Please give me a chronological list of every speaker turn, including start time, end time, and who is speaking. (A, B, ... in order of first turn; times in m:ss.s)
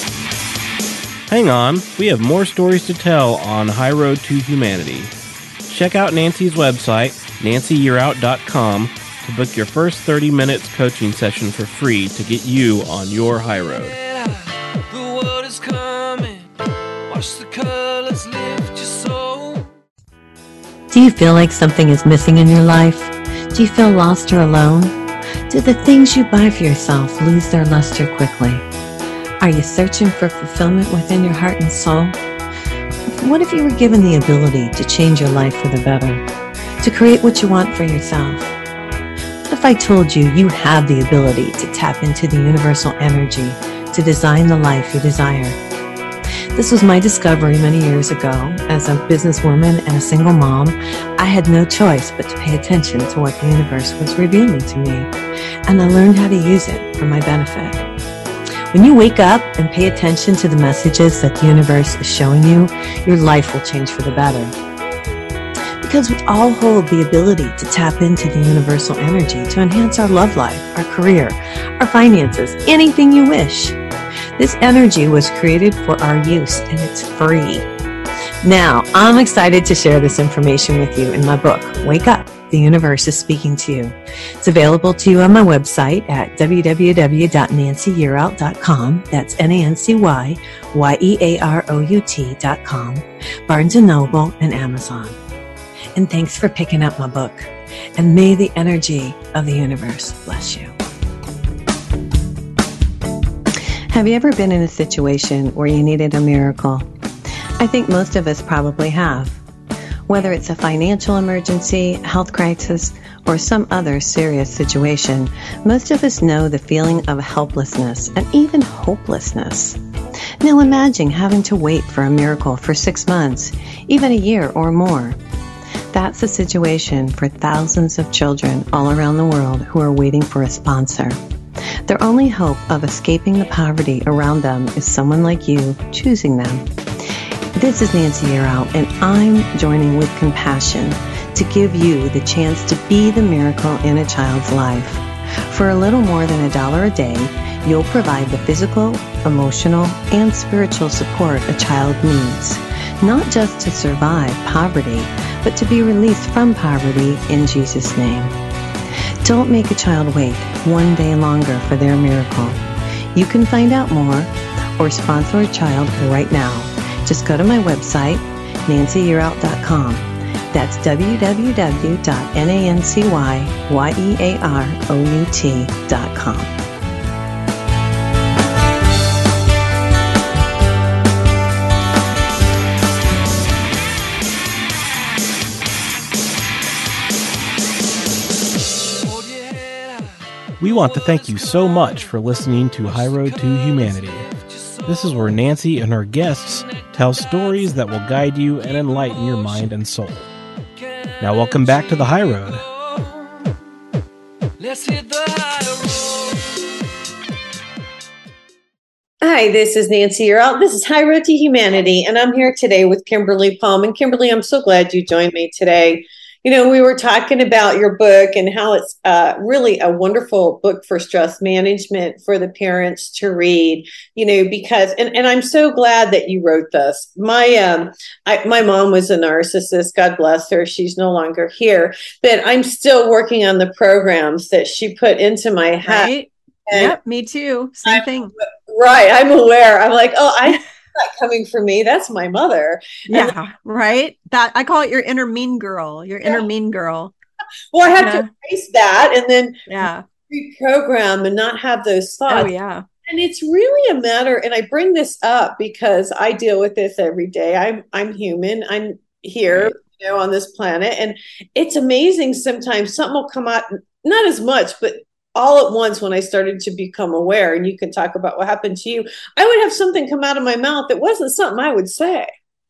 0:01.3-0:05.1 A
0:05.7-0:14.0 A
0:13.7-0:16.5 B
0:17.1-0:19.7 B
0:20.9-0:24.9 C
0:25.5-0:28.6 C
0:29.4-0:32.2 C
0:33.2-0:36.2 C
0:36.8-0:38.5 C
0:39.5-0:45.6 C
0:46.6-0:55.1 C
0:55.7-0:57.8 C
0:58.7-1:04.5 C
1:05.8-1:13.8 C
1:14.4-1:17.6 C
1:18.4-1:35.2 C
1:35.9-1:40.7 C
1:43.9-1:46.9 C
1:47.6-1:49.4 C
1:50.1-1:59.8 C
2:00.4-2:05.2 C
2:05.9-2:11.2 C
2:11.9-2:16.6 C
2:17.6-2:38.3 C
2:39.2-2:42.6 C
2:43.1-2:56.5 C
3:09.0-3:15.4 B
3:10.6-3:14.3 A
3:14.9-3:20.3 A
3:16.3-3:19.7 B
3:20.8-3:23.6 B
3:21.2-3:22.6 A
3:24.6-3:26.7 B
3:29.2-3:56.1 D
3:55.8-3:58.3 E
3:56.7-3:57.0 D
3:57.9-4:03.3 D
4:03.1-4:07.1 E
4:07.7-4:09.7 D
4:08.0-4:08.3 E
4:09.7-4:10.0 E
4:10.3-4:12.5 D
4:12.3-4:12.9 E
4:13.0-4:32.3 D
4:19.5-4:19.8 E